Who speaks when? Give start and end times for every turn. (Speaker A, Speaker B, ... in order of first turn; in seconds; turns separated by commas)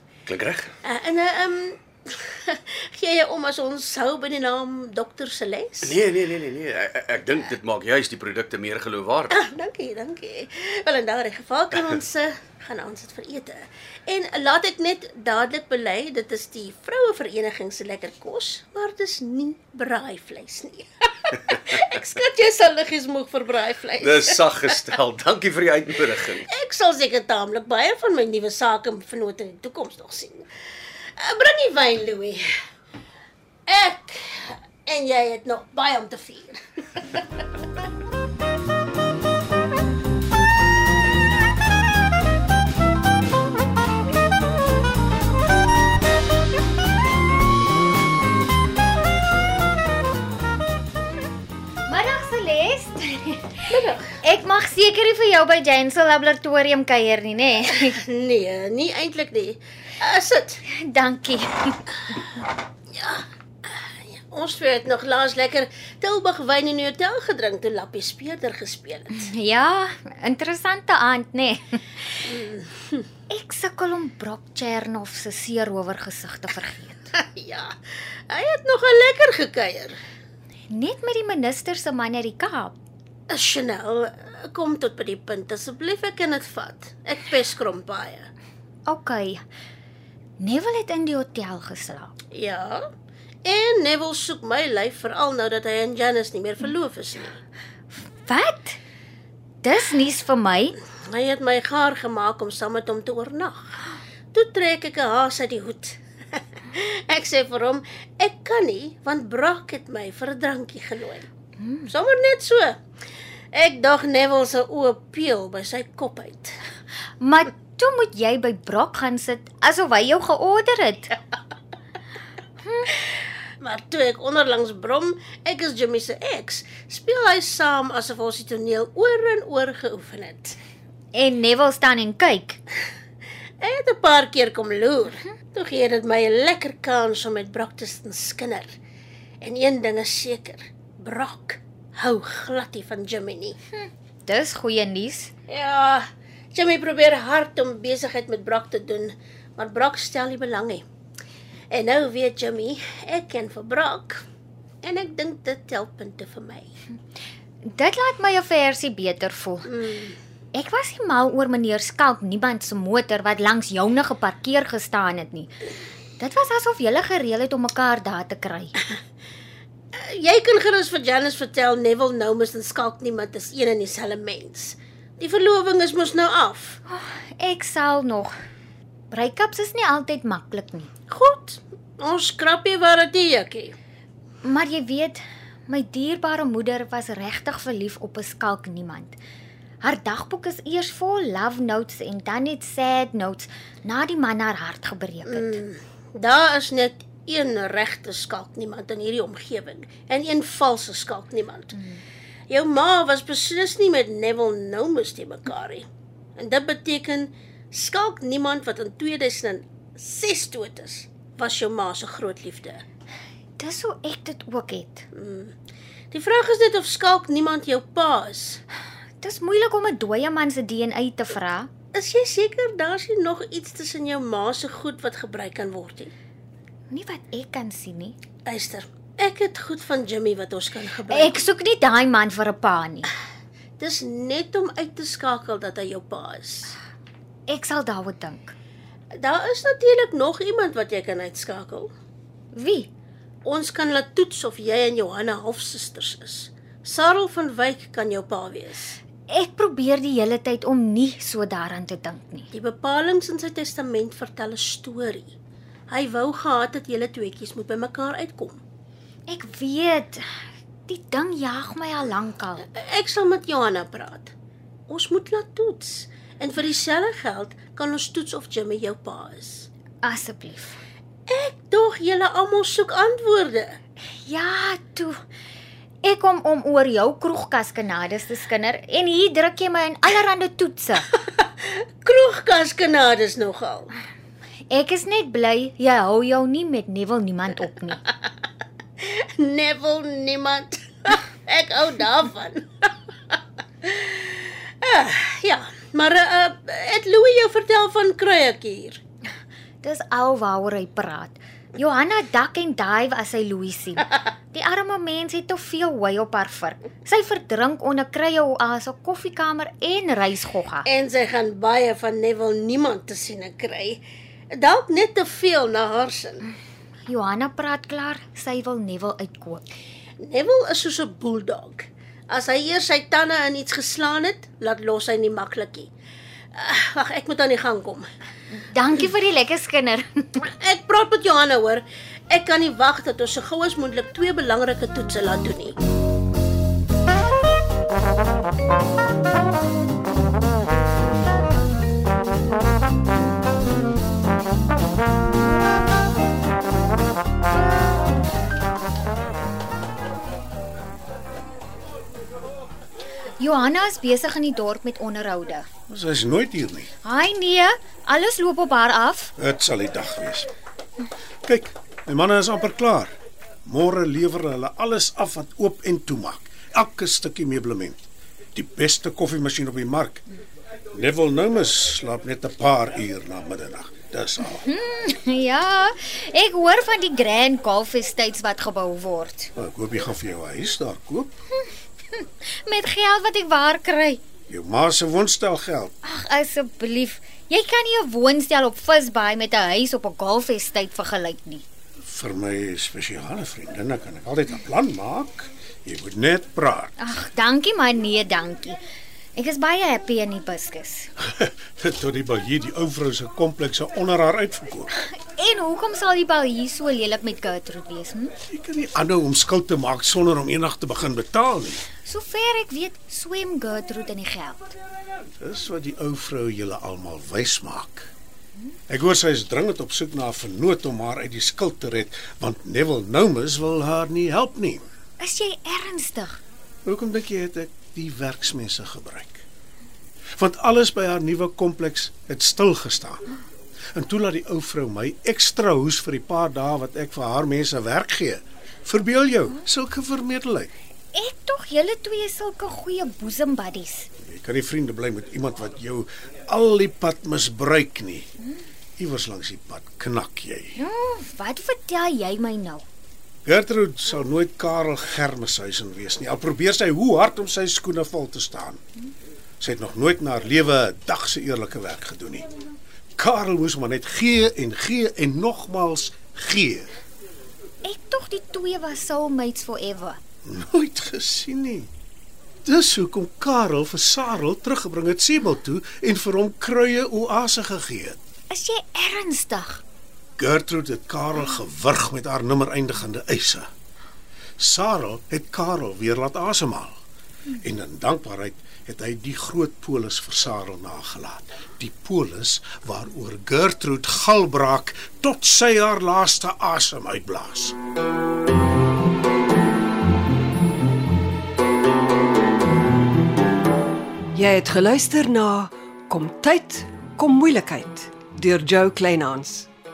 Speaker A: 0.2-0.7, Speaker B: 0.8-6.0, Speaker A: 5.8-9.3, Speaker B: 9.3-24.8, Speaker A: 24.0-26.4, Speaker B: 26.5-30.5, Speaker B: 31.2-32.4, Speaker B: 33.7-37.2, Speaker C: 51.9-53.6, Speaker B: 53.7-54.1, Speaker C: 54.2-58.0, Speaker B: 57.9-60.6, Speaker C: 60.7-62.1, Speaker B: 62.9-69.3, Speaker C: 69.1-72.2, Speaker B: 72.2-73.0, Speaker C: 73.3-77.1, Speaker B: 77.1-77.7, Speaker B: 78.3-80.0, Speaker C: 80.7-82.7, Speaker B: 83.3-88.3, Speaker C: 88.9-89.4, Speaker C: 90.4-92.1, Speaker B: 92.3-92.8, Speaker B: 93.4-97.4, Speaker C: 98.2-98.8, Speaker C: 99.6-100.8, Speaker B: 101.1-103.8, Speaker B: 104.3-111.3, Speaker C: 111.6-111.9, Speaker B: 111.9-112.8, Speaker B: 113.5-116.5, Speaker C: 117.2-121.2, Speaker B: 123.6-130.6, Speaker C: 131.1-132.6, Speaker B: 133.6-138.7, Speaker B: 139.4-143.6, Speaker C: 143.7-145.3, Speaker B: 145.5-150.8, Speaker B: 151.7-154.2, Speaker B: 154.8-156.8, Speaker C: 157.7-159.7, Speaker B: 159.7-160.2, Speaker C: 160.5-165.5, Speaker C: 166.2-168.8, Speaker B: 169.9-176.8, Speaker C: 176.9-178.3, Speaker C: 179.1-180.9, Speaker B: 181.1-183.8, Speaker C: 184.4-189.2, Speaker C: 189.8-195.6, Speaker B: 195.3-201.8, Speaker B: 202.5-212.8, Speaker C: 213.6-215.1, Speaker B: 215.1-215.5, Speaker B: 216.1-218.6, Speaker C: 219.2-221.7, Speaker B: 221.9-226.1, Speaker C: 226.9-228.2, Speaker B: 228.4-231.4, Speaker C: 231.1-233.1, Speaker B: 233.8-236.7, Speaker C: 237.5-238.5, Speaker B: 239.2-241.9, Speaker C: 242.5-242.9, Speaker B: 243.4-249.0, Speaker C: 249.3-252.5, Speaker B: 252.5-255.3, Speaker B: 255.9-258.6, Speaker C: 259.3-260.2, Speaker C: 260.9-262.6, Speaker B: 262.7-264.3, Speaker B: 264.9-269.7, Speaker C: 270.0-270.8, Speaker B: 271.3-273.8, Speaker C: 274.2-275.2, Speaker C: 276.0-281.1, Speaker B: 281.6-283.9, Speaker C: 284.7-288.0, Speaker B: 289.0-292.9, Speaker B: 293.8-299.0, Speaker C: 299.8-310.9, Speaker B: 310.8-316.4, Speaker C: 317.1-319.6, Speaker B: 320.2-325.9, Speaker B: 326.5-328.1, Speaker C: 328.7-330.4, Speaker B: 330.6-335.8, Speaker C: 353.4-355.7, Speaker D: 355.9-356.9, Speaker C: 357.0-359.3, Speaker D: 359.4-360.5, Speaker D: 361.4-363.1, Speaker D: 363.6-370.2, Speaker D: 370.9-374.7, Speaker C: 374.5-379.5, Speaker D: 379.6-381.3, Speaker C: 382.1-384.2, Speaker D: 384.5-385.9, Speaker C: 386.0-391.6, Speaker D: 392.1-396.9, Speaker C: 397.0-398.8, Speaker C: 399.4-401.1, Speaker D: 401.4-404.9, Speaker C: 405.2-408.3, Speaker D: 408.5-411.8, Speaker C: 412.0-414.8, Speaker D: 415.4-418.1, Speaker D: 418.9-424.8, Speaker C: 425.2-426.4, Speaker D: 426.8-429.4, Speaker D: 430.4-433.2, Speaker D: 433.9-440.7, Speaker C: 441.1-444.1, Speaker D: 444.2-448.3, Speaker D: 449.0-450.8, Speaker C: 450.8-452.8, Speaker D: 453.4-458.8, Speaker D: 459.6-462.4, Speaker D: 463.2-466.9, Speaker C: 467.8-470.2, Speaker D: 470.4-471.9, Speaker D: 472.6-478.2, Speaker C: 478.5-479.8, Speaker D: 480.4-483.7, Speaker D: 484.6-487.0, Speaker D: 487.6-497.7, Speaker E: 504.3-509.7